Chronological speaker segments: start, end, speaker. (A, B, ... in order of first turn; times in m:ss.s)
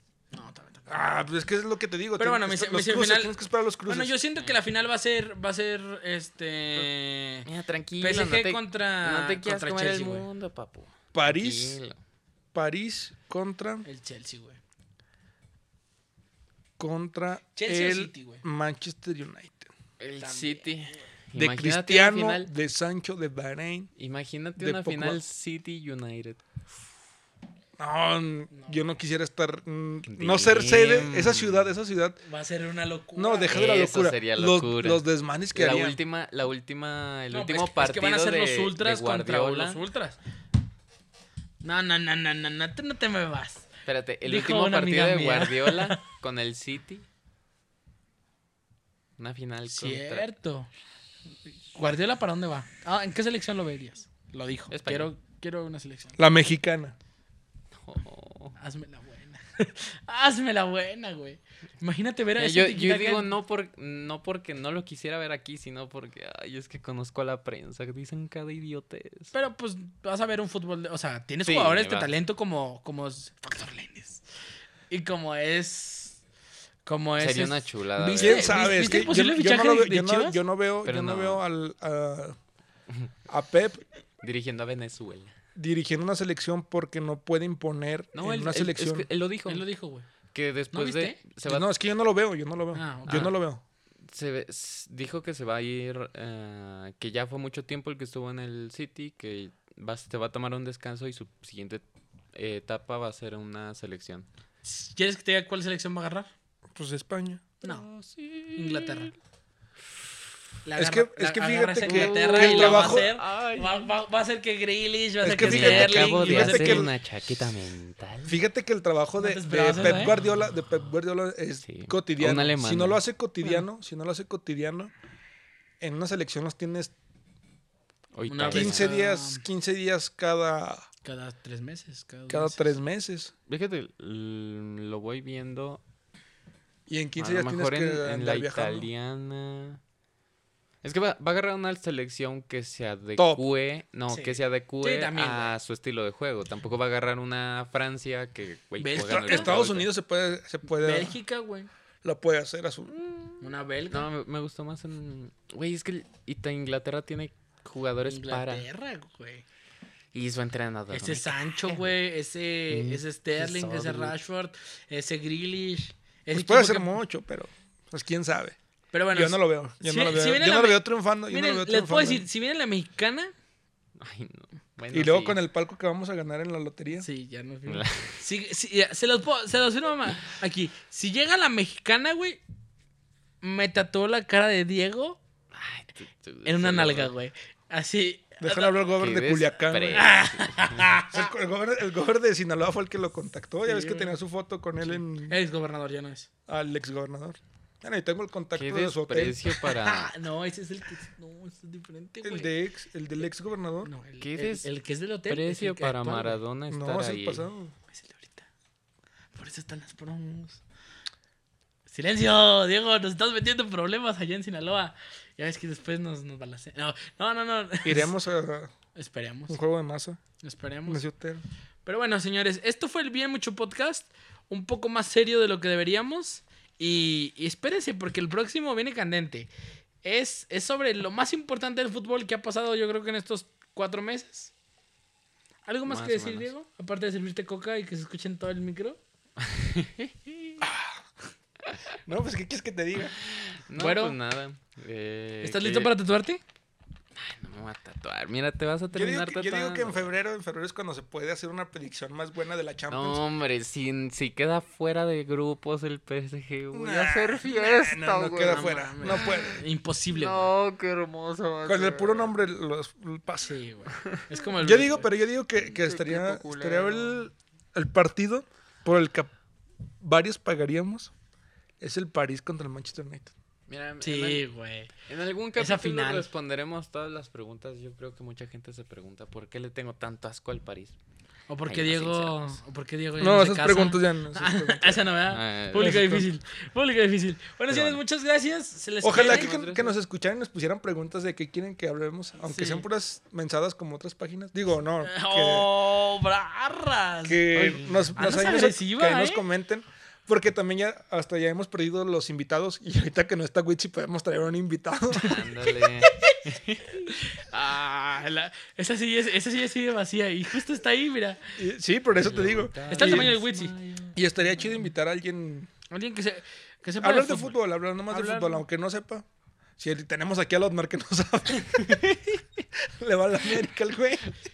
0:00.3-0:01.1 A
0:00.9-0:04.1 B
0:02.2-0:07.5 A
0:07.4-0:12.0 C
0:08.0-0:10.3 A
0:11.1-0:11.8 B
0:12.5-0:13.8 B
0:13.8-0:14.6 A
0:16.8-0:19.7 B
0:17.6-0:18.4 A
0:20.0-0:22.5 C
0:20.2-0:21.0 A
0:21.3-0:23.9 B
0:24.0-0:26.4 C
0:24.6-0:25.2 B
0:27.8-0:32.2 B
0:28.5-0:28.8 A
0:30.1-0:31.7 C
0:32.2-0:33.8 A
0:33.2-0:36.0 B
0:33.5-0:35.0 C
0:35.5-0:39.8 C
0:37.3-0:40.2 A
0:41.6-0:43.7 A
0:43.8-0:47.0 C
0:44.2-0:46.0 A
0:49.2-0:50.3 C
0:49.7-0:50.7 A
0:51.7-0:56.2 A
0:54.7-0:55.1 C
0:56.2-0:56.9 B
0:57.8-0:58.6 C
0:58.6-1:03.3 A
1:02.4-1:09.3 C
1:09.3-1:14.2 A
1:11.4-1:12.1 C
1:14.9-1:16.2 A
1:16.8-1:20.4 A
1:17.2-1:18.6 C
1:18.2-1:22.4 B
1:20.8-1:21.4 C
1:23.3-1:23.8 B
1:24.2-1:25.3 C
1:25.5-1:29.0 B
1:28.1-1:29.7 C
1:29.5-1:30.1 A
1:30.3-1:31.7 C
1:30.7-1:31.2 A
1:31.4-1:33.6 B
1:32.7-1:33.4 A
1:33.1-1:33.4 C
1:34.0-1:41.8 C
1:42.3-1:44.2 C
1:44.6-1:46.3 A
1:46.7-1:47.6 B
1:47.6-1:49.1 C
1:48.6-1:49.1 A
1:50.6-1:56.9 A
1:50.8-1:53.1 B
1:51.8-1:53.9 C
1:55.2-1:56.9 B
1:55.4-1:58.4 C
1:58.2-2:04.9 B
1:59.2-2:00.2 A
2:01.6-2:03.0 C
2:05.8-2:06.9 B
2:08.1-2:08.9 C
2:08.3-2:09.4 A
2:08.5-2:10.8 B
2:11.0-2:12.7 A
2:12.3-2:13.3 B
2:13.5-2:15.8 C
2:16.9-2:18.9 B
2:17.2-2:19.8 C
2:20.8-2:29.9 C
2:23.2-2:23.4 B
2:24.1-2:25.6 A
2:28.8-2:29.5 A
2:28.9-2:31.2 B
2:30.6-2:31.7 A
2:32.0-2:33.0 B
2:32.9-2:33.4 C
2:33.4-2:34.1 A
2:33.9-2:38.7 C
2:38.0-2:39.4 A
2:40.1-2:42.0 C
2:40.9-2:46.9 A
2:42.7-2:44.2 C
2:46.3-2:48.6 B
2:48.9-2:53.3 A
2:49.1-2:52.2 B
2:54.0-2:55.4 C
2:54.9-2:57.1 B
2:57.0-3:02.4 A
2:57.7-2:58.2 C
3:03.4-3:05.2 A
3:05.5-3:07.1 C
3:06.4-3:08.8 A
3:08.4-3:10.1 B
3:09.0-3:10.9 C
3:10.0-3:11.2 A
3:11.1-3:15.4 B
3:13.6-3:14.2 A
3:14.8-3:16.3 A
3:16.5-3:19.4 B
3:18.5-3:20.1 C
3:19.5-3:22.5 A
3:22.2-3:23.9 B
3:23.8-3:26.4 A
3:24.2-3:24.7 C
3:25.3-3:27.4 C
3:26.7-3:27.7 B
3:27.9-3:28.4 A
3:29.3-3:30.6 A
3:31.9-3:38.1 A
3:37.8-3:38.7 B
3:38.9-3:39.6 A
3:39.5-3:40.2 B
3:40.4-3:41.0 A
3:40.8-3:41.4 B
3:41.8-3:49.5 A
3:50.0-3:54.5 A
3:55.6-3:59.0 A
3:55.8-3:56.5 C
3:59.4-4:00.6 C
4:00.6-4:01.0 B
4:02.0-4:03.2 B
4:03.2-4:05.9 C
4:03.8-4:04.1 A
4:05.4-4:06.4 A
4:07.2-4:10.1 C
4:08.9-4:13.2 B
4:12.9-4:22.3 C
4:16.7-4:19.6 B
4:18.4-4:20.5 A
4:21.6-4:29.3 B
4:23.4-4:25.1 A
4:25.6-4:27.2 C
4:30.0-4:31.1 B
4:31.8-4:33.3 B
4:33.7-4:40.9 C
4:34.0-4:34.9 A
4:35.6-4:36.3 A
4:41.5-4:49.5 A
4:41.7-4:42.6 C
4:43.2-4:45.1 B
4:45.3-4:46.1 C
4:45.7-4:46.2 B
4:47.7-4:48.0 C
4:49.0-4:55.7 B
4:49.1-4:49.9 C
4:52.4-4:52.8 A
4:55.0-4:59.4 A
4:57.2-5:05.4 B
4:57.6-4:58.1 C
5:05.1-5:07.1 C
5:06.0-5:11.6 A
5:11.6-5:13.3 B
5:12.2-5:14.2 C
5:12.9-5:13.7 A
5:14.1-5:15.7 B
5:15.9-5:18.6 A
5:17.0-5:19.2 B
5:19.8-5:22.0 B
5:21.6-5:22.4 C
5:23.0-5:24.3 B